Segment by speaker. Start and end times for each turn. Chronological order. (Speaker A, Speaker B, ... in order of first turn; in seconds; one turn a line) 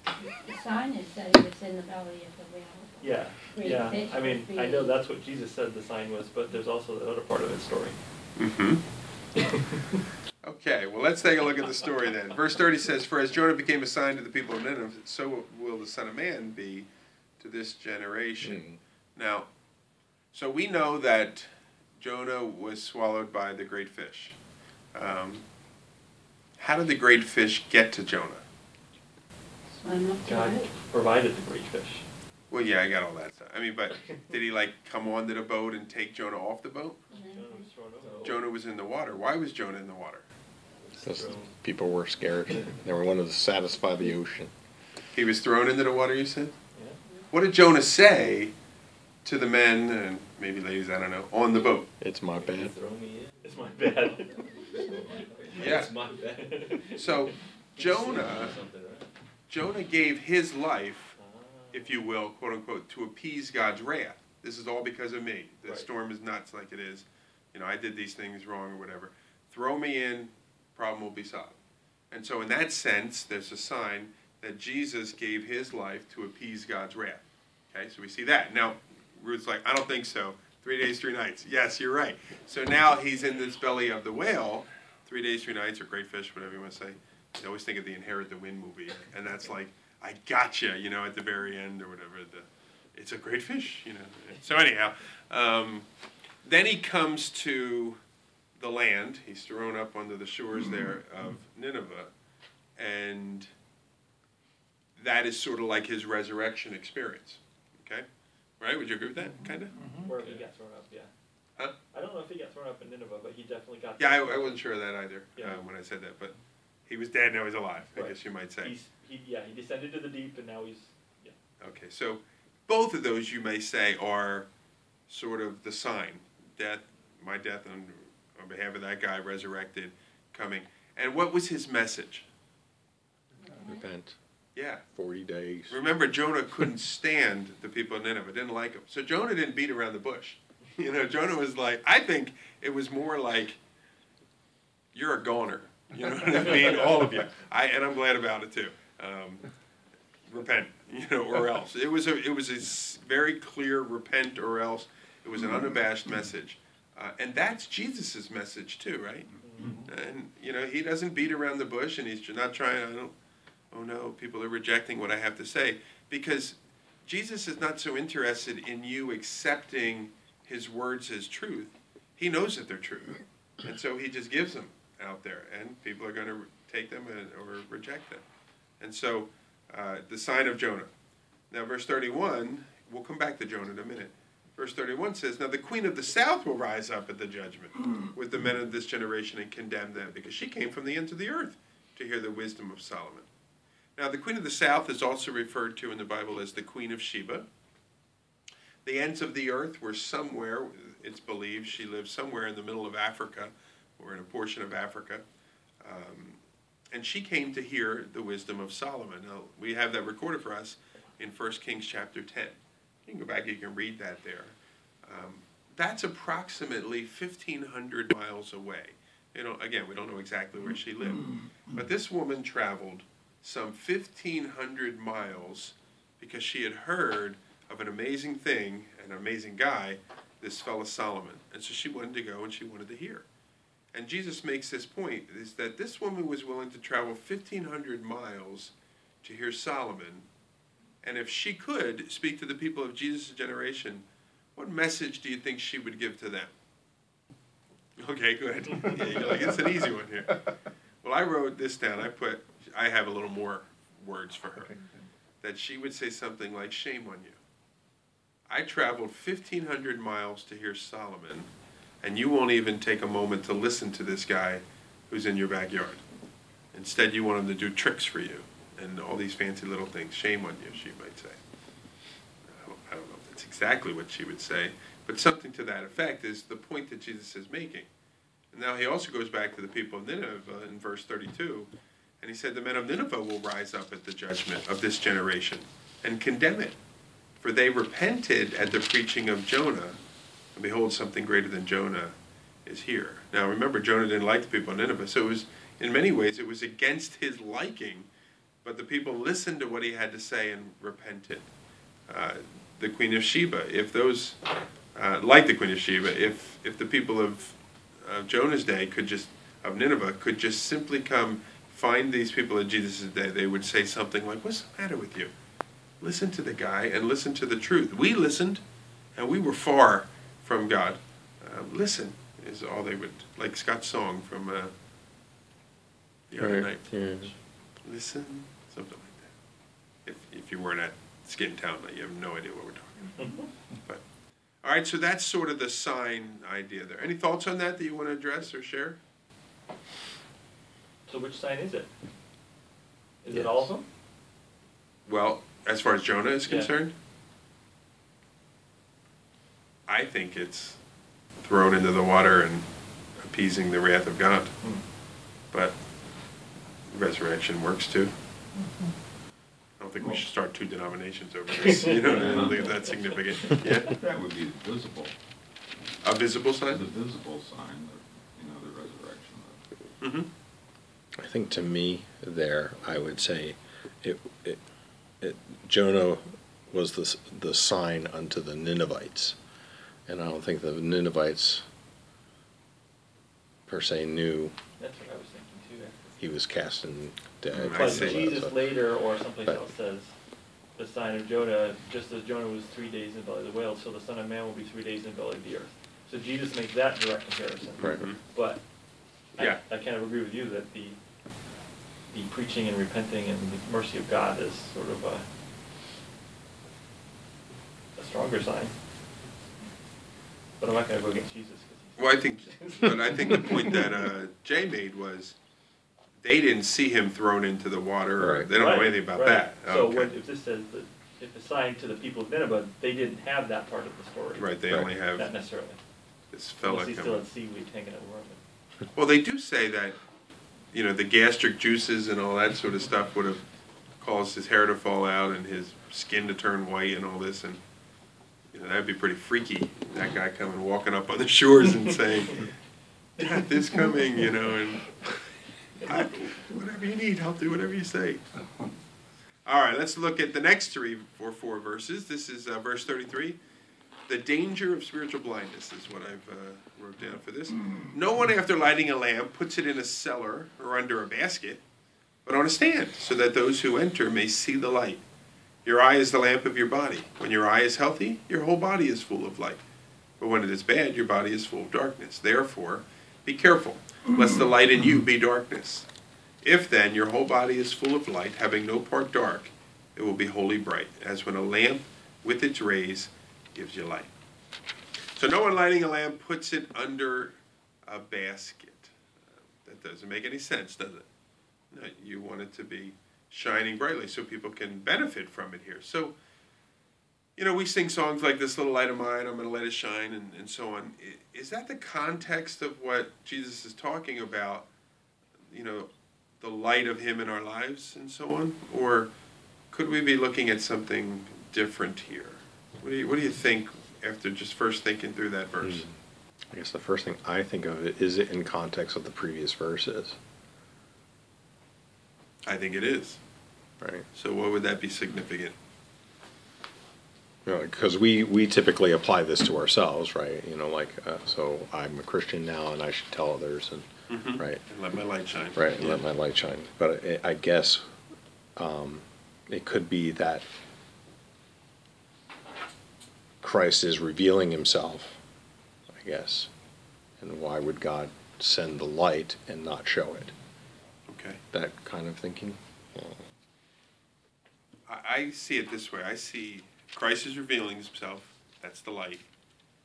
Speaker A: 0.3-4.9
Speaker B: 3.0-8.0
Speaker C: 8.4-8.8
Speaker B: 9.4-9.7
Speaker C: 10.4-16.9
Speaker C: 17.4-18.6
Speaker D: 18.4-18.8
Speaker C: 19.2-19.5
Speaker C: 20.3-24.4
Speaker C: 24.9-25.4
Speaker C: 26.6-28.4
Speaker A: 29.7-30.7
Speaker B: 30.2-32.1
Speaker C: 32.5-37.0
Speaker A: 37.1-37.7
Speaker B: 37.2-38.4
Speaker E: 38.0-38.3
Speaker C: 38.2-40.3
Speaker B: 40.9-41.5
Speaker E: 41.0-41.5
Speaker D: 41.0-44.5
Speaker C: 45.1-46.6
Speaker B: 46.8-47.0
Speaker C: 47.3-48.5
Speaker C: 49.2-51.9
Speaker D: 52.0-52.8
Speaker E: 52.3-57.1
Speaker B: 53.4-54.5
Speaker C: 55.6-55.9
Speaker B: 55.6-57.2
Speaker C: 57.0-58.5
Speaker E: 57.8-59.1
Speaker C: 59.5-61.2
Speaker B: 61.2-62.0
Speaker C: 61.7-71.6
Speaker C: 72.1-95.9
Speaker C: 96.4-98.0
Speaker C: 98.6-102.1
Speaker C: 102.8-103.5
Speaker C: 105.0-108.1
Speaker C: 108.6-109.8
Speaker E: 110.0-110.4
Speaker B: 110.0-111.1
Speaker B: 111.9-114.6
Speaker C: 114.0-116.3
Speaker C: 116.9-118.7
Speaker B: 118.0-121.4
Speaker C: 121.6-124.5
Speaker C: 125.1-132.3
Speaker A: 133.5-133.8
Speaker D: 133.6-134.2
Speaker C: 134.6-134.8
Speaker D: 134.9-135.8
Speaker C: 135.7-143.6
Speaker C: 144.9-149.5
Speaker C: 150.3-159.3
Speaker C: 159.8-163.1
Speaker C: 163.7-178.2
Speaker C: 178.8-180.9
Speaker C: 181.5-193.3
Speaker C: 194.0-197.5
Speaker C: 198.8-205.2
Speaker C: 205.8-206.4
Speaker C: 206.9-233.3
Speaker C: 233.9-240.3
Speaker C: 241.0-244.1
Speaker C: 244.6-246.5
Speaker C: 248.0-250.5
Speaker C: 251.0-254.7
Speaker C: 255.4-257.4
Speaker C: 258.5-261.5
Speaker C: 262.0-266.0
Speaker C: 266.7-271.4
Speaker C: 272.5-277.9
Speaker C: 278.5-281.7
Speaker C: 282.2-286.8
Speaker C: 287.4-290.0
Speaker C: 290.6-298.1
Speaker C: 298.6-301.5
Speaker C: 302.1-304.4
Speaker C: 304.9-315.3
Speaker C: 316.0-318.6
Speaker C: 319.2-324.7
Speaker C: 326.3-327.0
Speaker D: 326.4-327.3
Speaker C: 327.8-329.3
Speaker C: 330.1-333.4
Speaker B: 333.2-333.5
Speaker C: 334.6-339.0
Speaker B: 341.1-341.9
Speaker B: 343.2-343.9
Speaker D: 343.3-343.7
Speaker C: 345.1-346.9
Speaker C: 349.9-350.8
Speaker C: 351.4-352.7
Speaker C: 353.2-354.7
Speaker C: 355.5-355.8
Speaker C: 356.9-358.1
Speaker C: 359.8-363.9
Speaker F: 360.0-360.3
Speaker B: 361.6-363.0
Speaker F: 362.0-365.1
Speaker C: 366.0-366.8
Speaker F: 366.7-369.6
Speaker C: 370.0-370.3
Speaker D: 371.2-374.7
Speaker D: 375.2-379.4
Speaker D: 380.1-381.7
Speaker D: 383.7-384.6
Speaker B: 384.8-386.0
Speaker D: 386.2-388.7
Speaker C: 387.5-388.3
Speaker B: 387.7-390.1
Speaker B: 390.8-398.6
Speaker D: 397.8-398.1
Speaker B: 399.4-401.0
Speaker B: 402.1-405.3
Speaker B: 407.9-408.7
Speaker B: 410.6-413.4
Speaker C: 412.0-415.4
Speaker C: 416.2-420.1
Speaker D: 418.2-418.5
Speaker B: 418.6-425.8
Speaker C: 424.4-425.3
Speaker C: 426.3-427.2
Speaker B: 426.6-428.4
Speaker C: 428.9-430.0
Speaker C: 430.7-433.4
Speaker C: 434.0-437.6
Speaker C: 438.5-442.5
Speaker C: 443.2-445.3
Speaker C: 445.8-448.2
Speaker C: 449.4-453.4
Speaker C: 454.1-461.6
Speaker C: 462.2-465.0
Speaker C: 465.6-469.6
Speaker C: 470.2-475.9
Speaker C: 476.4-484.1
Speaker C: 485.2-491.1
Speaker C: 491.7-496.2
Speaker C: 497.4-504.7
Speaker C: 505.5-505.9
Speaker C: 506.4-509.1
Speaker C: 509.7-515.9
Speaker D: 515.6-516.0
Speaker D: 516.5-520.2
Speaker C: 522.5-523.2
Speaker D: 523.8-524.1
Speaker C: 524.1-525.5
Speaker D: 527.4-534.6
Speaker C: 534.1-536.0
Speaker D: 535.5-538.0
Speaker D: 538.5-540.5
Speaker D: 543.4-545.2
Speaker D: 545.9-546.5
Speaker D: 547.2-550.3
Speaker C: 551.1-551.4
Speaker D: 551.5-553.3
Speaker C: 554.9-559.2